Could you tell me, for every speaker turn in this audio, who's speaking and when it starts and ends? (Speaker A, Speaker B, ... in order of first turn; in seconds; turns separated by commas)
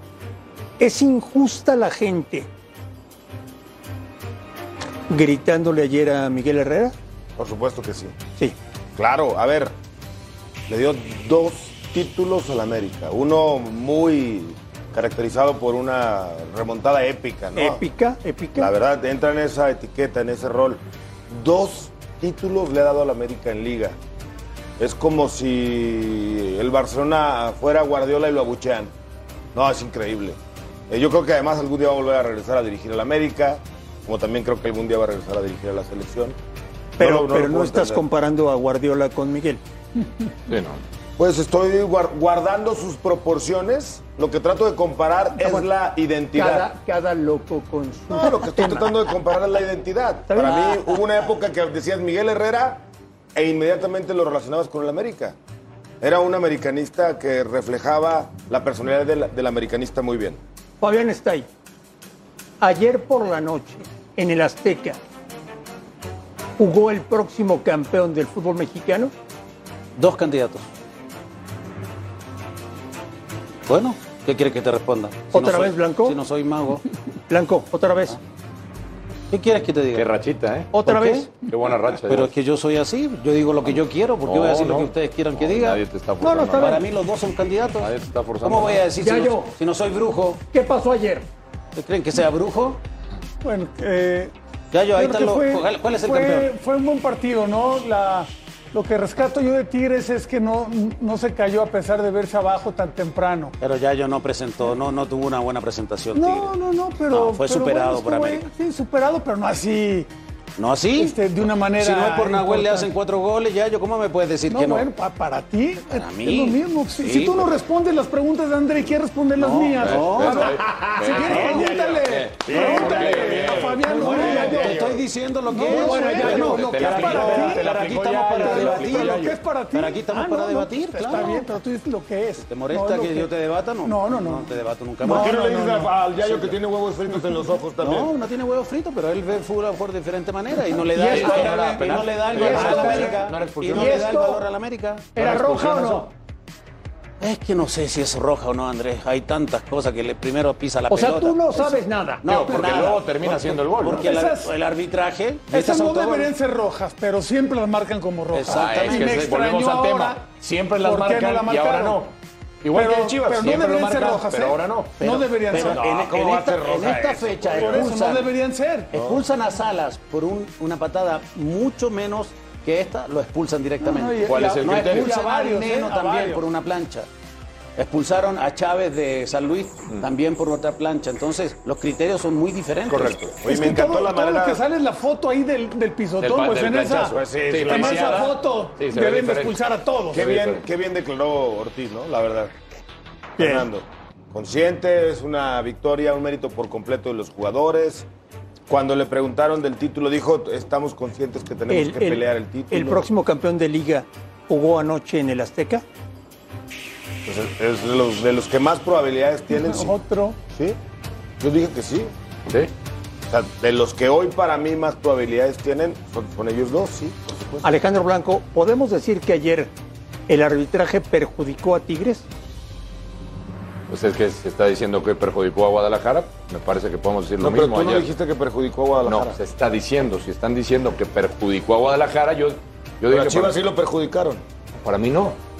Speaker A: 0.8-2.5, Speaker A: 5.1-6.9, Speaker B: 7.4-8.2, Speaker B: 8.9-9.7, Speaker B: 10.7-17.8, Speaker A: 17.6-18.7, Speaker B: 18.6-23.9, Speaker B: 24.8-28.9, Speaker B: 29.5-30.4, Speaker B: 30.9-36.4, Speaker B: 37.0-38.0, Speaker A: 37.0-39.6, Speaker C: 40.5-40.8, Speaker B: 41.2-46.7, Speaker A: 45.4-45.6, Speaker A: 46.3-48.9, Speaker B: 48.1-55.4, Speaker A: 50.3-50.7, Speaker D: 50.4-50.9, Speaker B: 56.0-60.4, Speaker A: 60.8-61.5, Speaker A: 62.6-65.0, Speaker A: 66.6-69.1, Speaker D: 70.0-70.7, Speaker D: 73.7-76.8, Speaker A: 75.3-76.2, Speaker A: 77.3-78.2, Speaker D: 79.3-80.1, Speaker C: 79.9-80.7, Speaker A: 80.7-81.3, Speaker D: 80.8-81.3, Speaker C: 81.4-82.3, Speaker D: 82.0-85.8, Speaker C: 84.2-86.8, Speaker A: 86.2-86.8, Speaker D: 86.5-87.9, Speaker C: 87.8-88.9, Speaker D: 88.4-90.4, Speaker A: 89.0-89.5, Speaker A: 90.5-91.2, Speaker D: 91.7-92.8, Speaker E: 93.4-94.3, Speaker D: 94.7-96.5, Speaker E: 94.9-103.5, Speaker D: 103.6-106.5, Speaker E: 106.1-110.1, Speaker D: 107.1-108.5, Speaker D: 110.6-111.2, Speaker E: 110.9-112.9, Speaker D: 111.7-114.9, Speaker E: 114.5-124.9, Speaker D: 115.9-117.5, Speaker D: 119.4-120.5, Speaker C: 119.8-124.6, Speaker B: 120.4-125.0, Speaker D: 121.1-121.7, Speaker D: 122.6-131.5, Speaker E: 125.5-127.7, Speaker A: 125.8-126.2, Speaker C: 126.0-129.4, Speaker E: 128.3-133.3, Speaker D: 132.4-135.4, Speaker E: 133.8-135.9, Speaker B: 135.0-138.1, Speaker D: 136.2-136.6, Speaker D: 137.8-145.1, Speaker A: 141.0-141.8, Speaker C: 141.0-144.3, Speaker E: 141.1-143.2, Speaker A: 142.3-143.2, Speaker A: 143.7-144.4, Speaker C: 145.1-146.1, Speaker A: 145.1-146.1, Speaker D: 147.2-151.7, Speaker A: 150.9-152.2, Speaker D: 152.2-156.3, Speaker C: 152.2-154.0, Speaker E: 153.9-154.5, Speaker E: 155.5-162.0, Speaker D: 158.3-159.2, Speaker C: 158.5-165.0, Speaker E: 162.7-165.8, Speaker D: 165.0-168.3, Speaker B: 165.6-168.1, Speaker E: 167.5-168.9, Speaker D: 168.9-177.1, Speaker B: 168.9-169.2, Speaker E: 173.8-176.4, Speaker C: 174.2-175.2, Speaker D: 177.8-183.2, Speaker C: 182.9-183.4, Speaker B: 183.4-184.6, Speaker E: 183.4-190.2, Speaker C: 186.2-189.6, Speaker B: 187.1-188.3, Speaker B: 190.1-192.5, Speaker C: 190.1-190.7, Speaker B: 193.4-198.1, Speaker A: 193.4-193.7, Speaker B: 198.7-203.0, Speaker A: 201.7-205.8, Speaker B: 207.2-210.0, Speaker E: 209.5-210.4, Speaker B: 210.5-210.8, Speaker B: 211.4-212.1, Speaker B: 213.3-217.8, Speaker A: 217.6-219.7, Speaker A: 220.3-222.2, Speaker C: 223.9-228.1, Speaker B: 227.4-229.4, Speaker C: 229.0-233.6, Speaker B: 233.1-234.4, Speaker C: 234.8-235.4